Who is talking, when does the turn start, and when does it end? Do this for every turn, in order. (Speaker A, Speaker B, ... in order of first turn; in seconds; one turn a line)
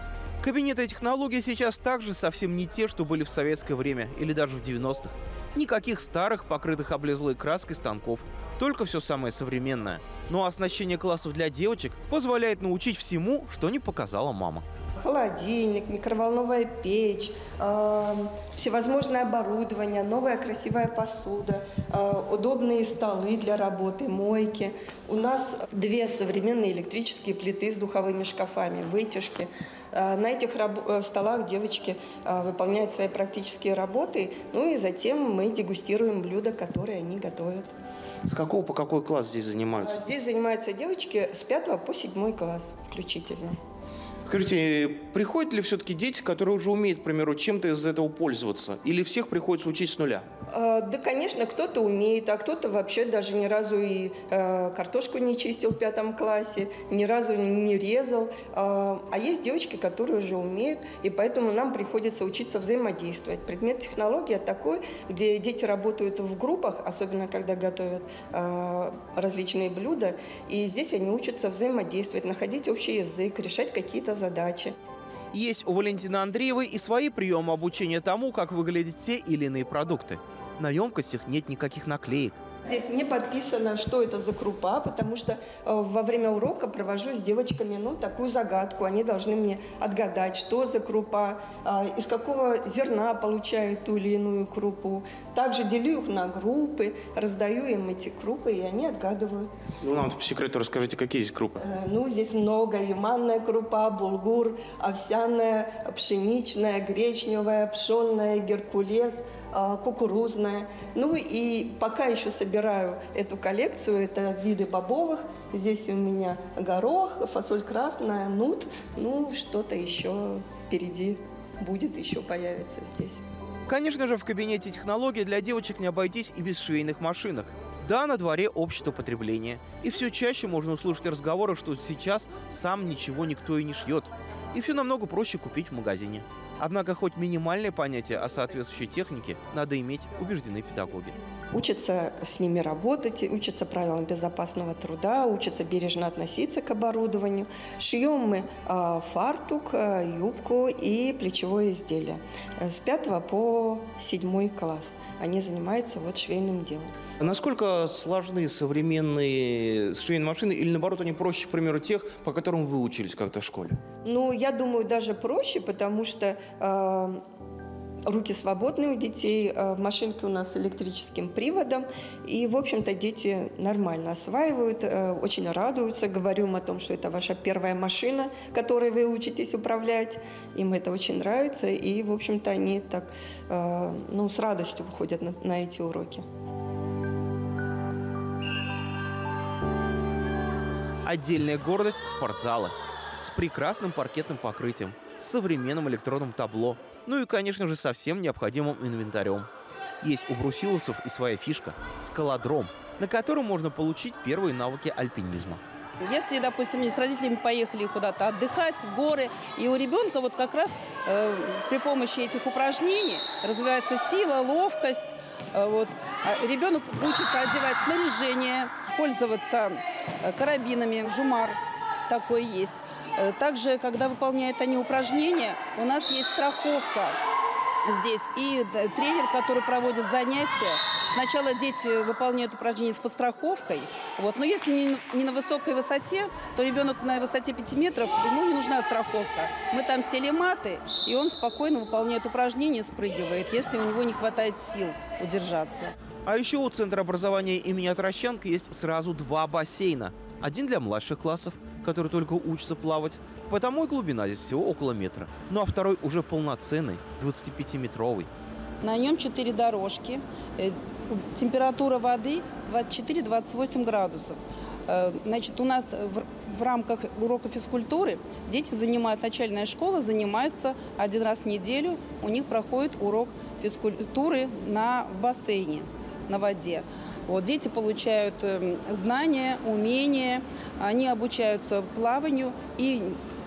Speaker A: 0.4-14.6
Speaker B: 15.0-37.7
Speaker A: 38.2-40.0
Speaker B: 39.8-43.6
Speaker A: 44.2-50.2
Speaker B: 50.5-74.7
Speaker A: 75.3-82.4
Speaker B: 82.6-99.5
Speaker A: 99.8-101.6
Speaker B: 101.6-123.2
Speaker A: 123.7-141.2
Speaker B: 141.5-156.9
Speaker A: 157.2-163.8
Speaker B: 164.0-167.2
Speaker B: 168.1-186.2
Speaker A: 191.0-199.5
Speaker A: 200.0-205.6
Speaker C: 206.0-221.6
Speaker C: 222.1-227.2
Speaker C: 227.8-245.9
Speaker A: 246.2-258.3
Speaker C: 258.8-283.2